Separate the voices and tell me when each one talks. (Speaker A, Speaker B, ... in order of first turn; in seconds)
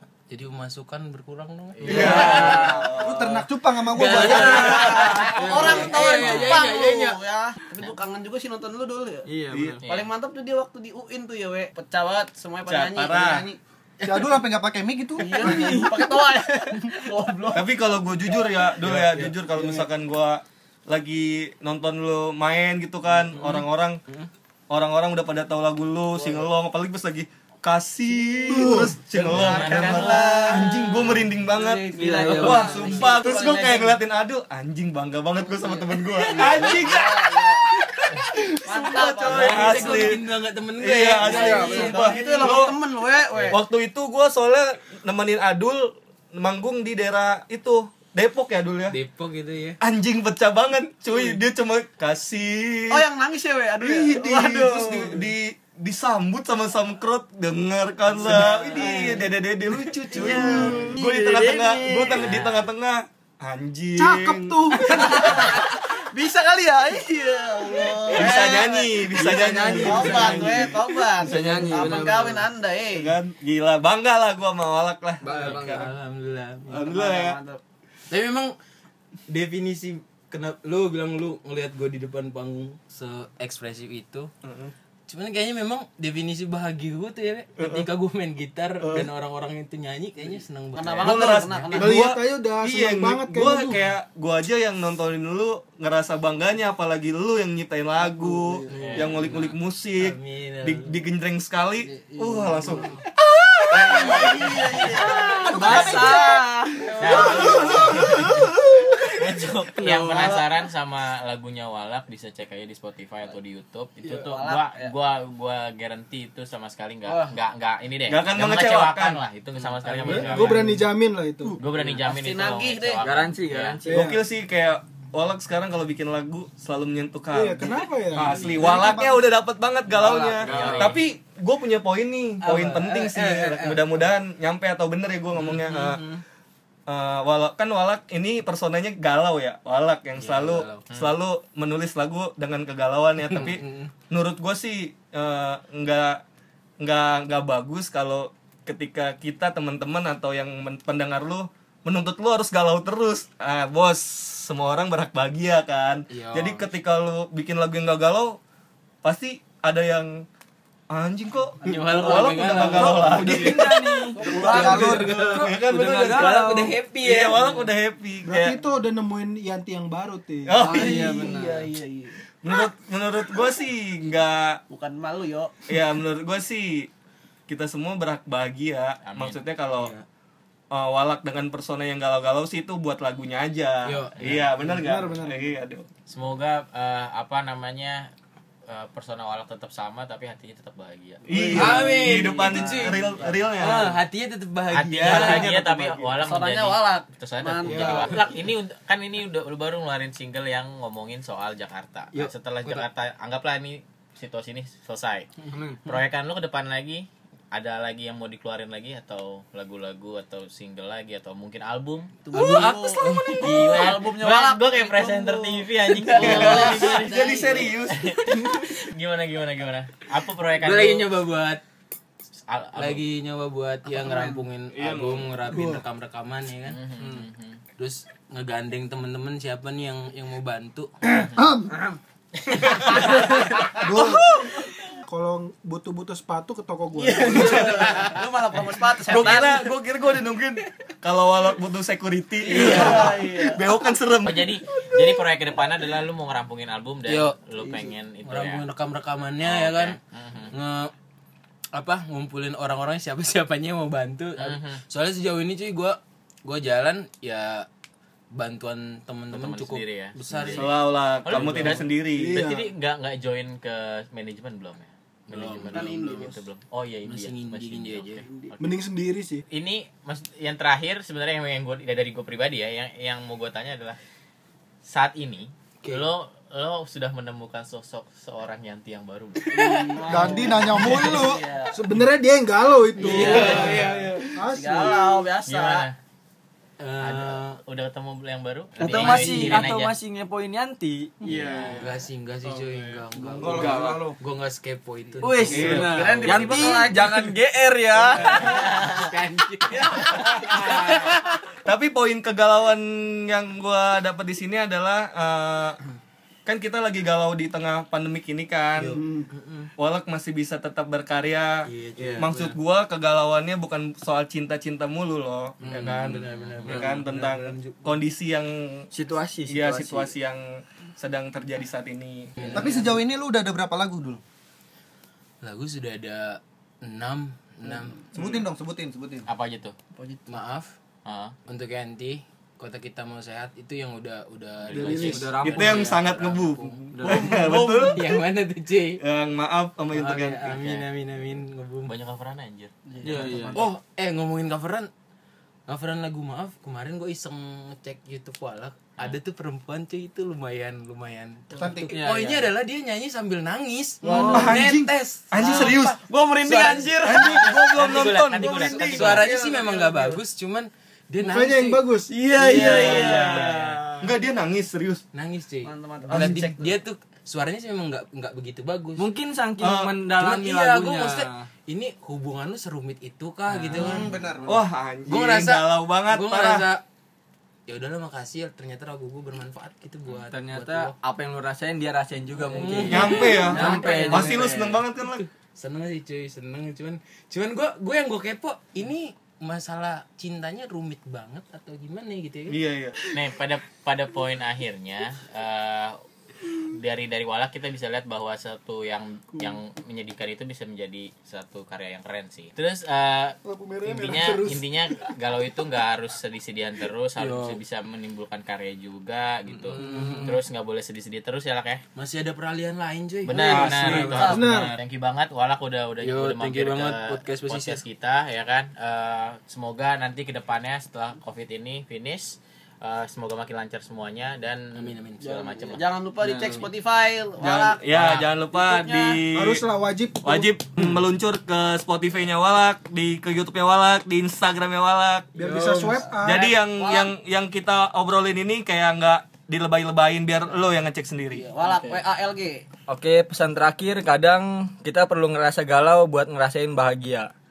Speaker A: 0.3-2.8, 3.9-7.2, 23.3-24.3, 32.2-33.1, 39.2-42.3, 48.9-49.8, 58.3-58.9, 69.7-70.5, 75.2-76.8, 78.1-78.5, 79.3-84.3, 85.1-91.6, 98.9-101.0, 119.8-120.6, 130.4-130.8, 135.5-136.2, 140.2-140.8, 143.2-143.9, 156.1-156.7, 161.6-167.7, 179.7-180.0, 183.8-184.2, 191.6-193.1, 193.6-195.8, 202.1-202.9, 205.5-205.8, 212.3-213.5, 216.3-216.6, 220.6-221.6, 222.8-226.8, 227.8-231.0, 247.1-247.4, 248.2-250.0, 250.5-250.9, 251.7-257.7, 258.3-261.9, 265.3-266.0, 267.1-268.2, 279.5-279.9, 283.0-284.2, 286.8-287.6, 288.8-289.7, 291.7-296.4, 298.2-301.1, 308.8-309.7, 311.7-312.6, 315.6-318.0, 322.4-323.0, 325.4-328.0, 330.3-330.8, 331.5-339.0, 339.9-341.9, 343.5-344.9, 345.7-357.2, 358.8-361.9, 365.1-369.1, 370.1-374.1, 375.1-376.8, 377.7-380.9, 382.5-384.8, 385.6-392.6, 407.2-407.6, 409.7-410.4, 412.0-414.4, 416.0-417.8, 424.7-425.5, 426.3-426.7
Speaker B: 1.8-2.0, 9.8-10.1, 29.3-30.6, 91.2-91.7, 98.8-99.3, 104.3-106.0, 107.0-108.5, 109.0-120.8, 121.6-123.8, 130.4-131.0, 179.0-179.4, 184.2-184.4, 186.1-188.1, 188.7-191.3, 194.7-205.3, 205.8-212.6, 213.2-221.1, 222.5-223.0, 226.7-227.6, 232.5-233.1, 244.3-248.6, 249.4-250.5, 254.4-254.8, 259.3-260.7, 261.2-268.6, 269.5-274.0, 274.9-279.8, 285.5-286.0, 287.0-289.9, 291.3-291.8, 296.0-296.8, 316.0-316.8, 329.3-329.8, 331.1-331.4, 340.5-340.9, 341.9-342.7, 357.6-359.3, 393.1-396.0, 396.6-411.8, 413.3-425.8, 427.9-428.3
Speaker C: 1.8-2.4, 5.3-7.0, 9.3-9.8, 15.4-15.9, 18.8-19.3, 32.0-32.8, 41.3-42.0, 61.0-62.3, 69.2-70.6, 71.2-72.5, 75.2-75.9, 98.7-99.1, 105.6-106.3, 109.8-110.1, 123.0-124.1, 129.9-131.0, 162.8-166.8, 170.6-171.7, 205.5-205.8, 227.0-227.3, 283.5-283.9, 288.8-294.1, 295.2-298.6, 312.0-312.3, 316.7-317.0, 318.9-320.1, 334.8-336.0, 336.9-337.4, 343.0-343.6, 351.9-352.4, 362.5-363.6, 369.0-371.5, 373.5-374.1, 380.3-384.8, 409.5-410.4, 413.5-414.4, 426.2-426.6, 435.4-436.1, 441.7-442.0, 442.9-447.3
Speaker D: 1.9-3.4, 4.3-5.3, 9.5-9.8, 12.8-13.2, 17.5-24.0, 24.7-40.2, 40.8-42.8, 43.5-49.0, 49.8-53.0, 53.8-65.5, 68.1-72.1, 72.9-75.9, 76.7-77.4, 84.4-84.7, 87.6-87.9, 88.8-89.1, 91.0-102.9, 103.7-104.3, 107.3-108.2, 118.1-119.2, 123.9-136.0, 136.9-146.2, 146.8-158.4, 159.0-160.2, 160.9-163.7, 164.6-168.6, 170.5-171.3, 172.4-174.6, 175.7-176.9, 177.5-179.9, 180.7-185.9, 191.3-193.9, 195.0-195.7, 216.2-218.1, 224.7-225.3, 237.3-237.6, 239.1-244.5, 260.5-262.4, 295.5-296.2, 301.6-305.8, 306.5-309.0, 309.8-311.7, 312.2-318.9, 319.5-322.4, 335.4-338.0, 339.0-340.6, 354.3-356.0, 357.0-359.2, 362.3-365.0, 366.1-366.6, 369.6-370.0, 374.5-376.7, 382.9-385.2, 392.5-393.0, 427.4-429.6, 430.2-435.4, 436.2-441.5
Speaker E: 1.9-3.0, 4.2-9.3, 9.9-13.5, 15.2-17.7, 28.6-34.0, 35.5-37.7, 38.6-40.1, 41.2-43.6, 52.9-55.3, 58.2-59.3, 60.1-61.2, 64.8-73.2, 76.8-77.6, 90.8-92.0, 98.0-98.8, 101.8-103.0, 103.7-108.2, 110.1-110.5, 114.0-114.9, 117.1-117.3, 122.0-123.1, 132.4-134.1, 161.9-162.8, 164.2-165.2, 170.6-172.2, 174.7-175.6, 191.3-193.9, 196.1-198.3, 212.3-217.7, 223.9-224.4, 232.9-233.5, 237.0-239.7, 242.4-243.7, 247.6-247.9, 265.7-266.4, 268.3-268.5, 279.5-281.9, 283.0-285.9, 291.5-291.8, 295.4-297.4, 298.0-299.1, 299.7-301.1, 337.1-337.9, 343.1-343.5, 355.4-357.7, 358.5-360.2, 362.1-364.1, 365.6-366.5, 382.8-384.4, 414.0-414.5, 425.2-429.2, 435.8-437.1, 441.3-442.7
Speaker F: 2.0-4.9, 13.0-15.9, 105.5-106.1, 128.5-129.3, 164.3-165.3, 231.0-231.7, 233.8-234.3, 280.1-281.4, 293.4-294.2, 322.5-324.2, 328.1-329.3, 351.6-351.9, 373.7-374.7
Speaker G: 64.0-65.3, 91.7-93.8, 120.0-121.6, 123.9-124.2, 127.3-128.4, 168.2-170.7, 184.6-185.5, 225.5-225.8, 235.1-237.6, 262.1-262.7, 268.6-269.4, 281.7-285.1, 308.9-309.3, 334.7-335.3, 361.2-362.1, 403.4-404.6, 414.2-414.7, 429.3-430.5, 435.4-436.5